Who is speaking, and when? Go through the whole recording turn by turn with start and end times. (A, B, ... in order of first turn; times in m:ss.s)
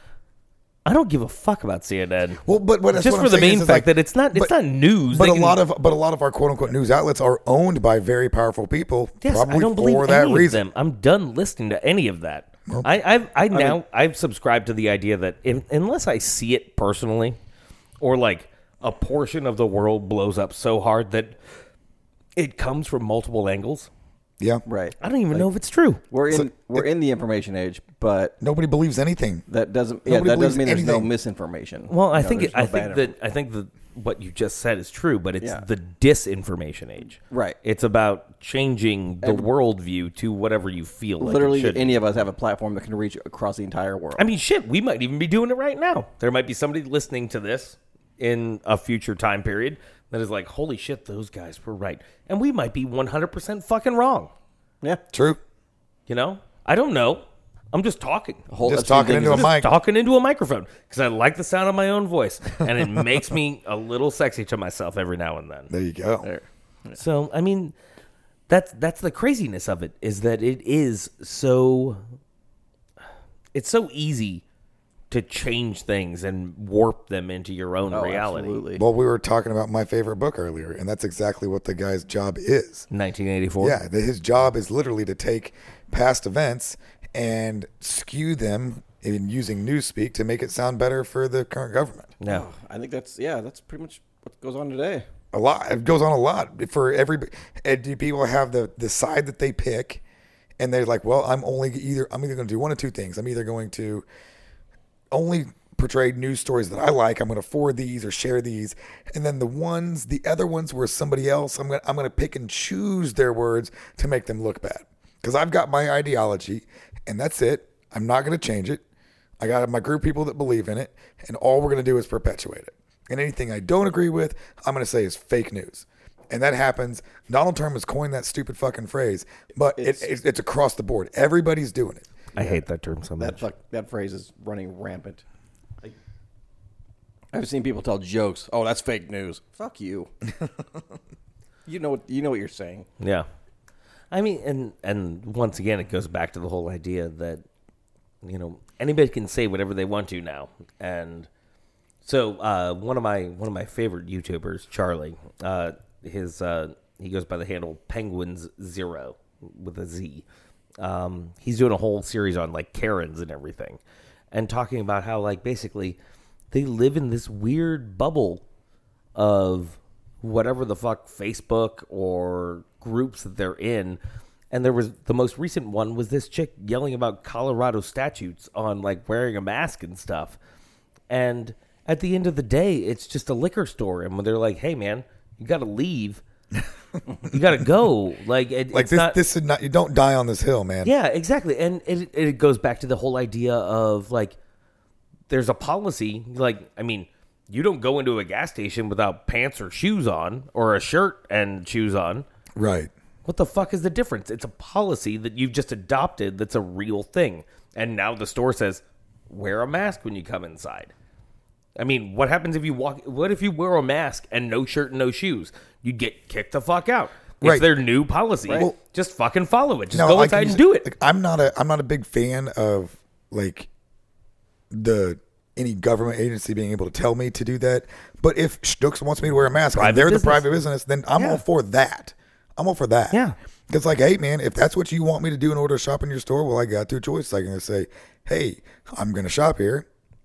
0:00.8-0:02.4 A
0:02.4-0:04.6 B
0:02.9-0:05.6 A
0:05.1-0:10.6 B
0:09.2-0:17.4 A
0:13.5-0:13.8 C
0:18.0-0:21.4 A
0:22.4-0:23.9 A
0:24.7-0:25.5 C
0:25.0-0:26.0 A
0:26.1-0:28.4 C
0:26.3-0:26.9 B
0:28.4-0:29.4 B
0:29.5-0:33.1 C
0:30.1-0:31.1 B
0:31.9-0:42.0 A
0:37.2-0:37.6 C
0:39.2-0:39.5 C
0:41.2-0:44.3 C
0:44.2-0:54.3 A
0:55.1-0:55.4 B
0:56.1-0:58.5 A
0:58.5-0:59.5 C
0:58.6-0:59.7 B
0:59.2-1:05.7 A
1:05.7-1:06.3 B
1:06.2-1:07.0 C
1:07.0-1:07.7 A
1:08.5-1:12.0 A
1:13.5-1:14.4 A
1:15.1-1:18.6 A
1:17.9-1:18.8 C
1:18.8-1:22.9 B
1:22.9-1:23.8 A
1:23.6-1:32.1 B
1:32.2-1:32.5 A
1:32.3-1:35.1 C
1:35.3-1:40.0 B
1:40.6-1:44.0 B
1:45.1-1:58.8 B
1:59.4-2:12.1 B
2:09.8-2:10.1 C
2:12.4-2:13.4 A
2:12.4-2:12.6 C
2:13.2-2:15.2 C
2:17.3-2:20.1 C
2:21.7-2:22.9 C
2:23.0-2:23.3 A
2:24.1-2:27.4 A
2:28.2-2:31.3 A
2:32.0-2:40.3 A
2:40.8-2:43.8 A
2:44.3-2:46.0 A
2:46.5-2:48.4 A
2:49.2-2:54.0 A
2:54.5-3:00.4 A
3:01.1-3:06.2 A
3:07.2-3:09.2 A
3:08.7-3:10.9 B
3:10.8-3:14.4 A
3:15.3-3:22.3 A
3:22.6-3:22.9 B
3:23.2-3:30.9 A
3:31.8-3:40.9 A
3:37.4-3:37.7 B
3:38.5-3:38.8 B
3:39.9-3:43.7 B
3:44.7-3:59.9 B
3:49.7-3:50.5 A
3:51.2-3:51.4 A